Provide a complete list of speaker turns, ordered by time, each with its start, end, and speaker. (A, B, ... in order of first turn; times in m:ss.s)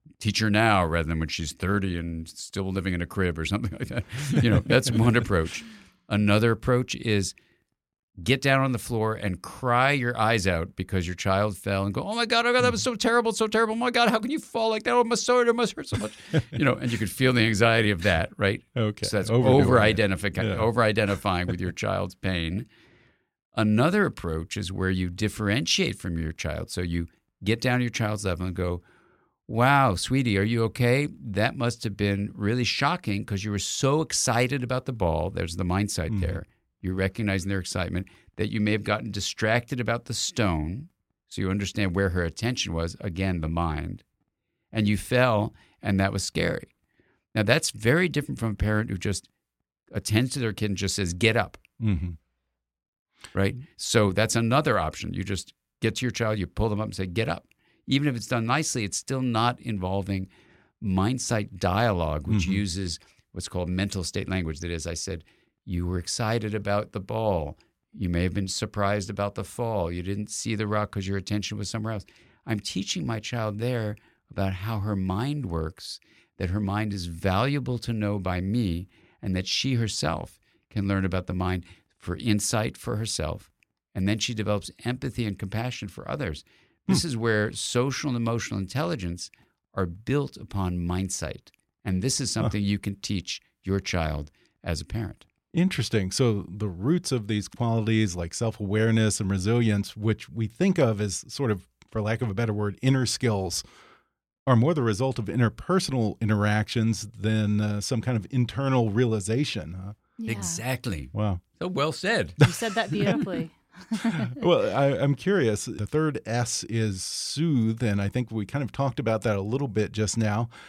0:00.2-0:07.4 A
0:08.2-0:22.7 A
0:18.8-0:20.7 B
0:23.5-0:28.8 A
0:29.5-0:44.0 A
0:36.1-0:36.4 B
0:44.7-0:46.7 A
0:47.4-0:49.3 A
0:49.9-0:51.6 A
0:51.8-0:52.2 B
0:53.3-1:00.3 A
1:00.8-1:35.3 A
1:02.3-1:02.6 B
1:35.5-1:43.6 B
1:44.5-1:50.0 B
1:50.2-1:50.6 C
1:50.3-1:52.4 A
1:51.1-1:51.4 B
1:52.4-1:54.4 C
1:52.9-1:53.2 B
1:54.1-2:00.5 B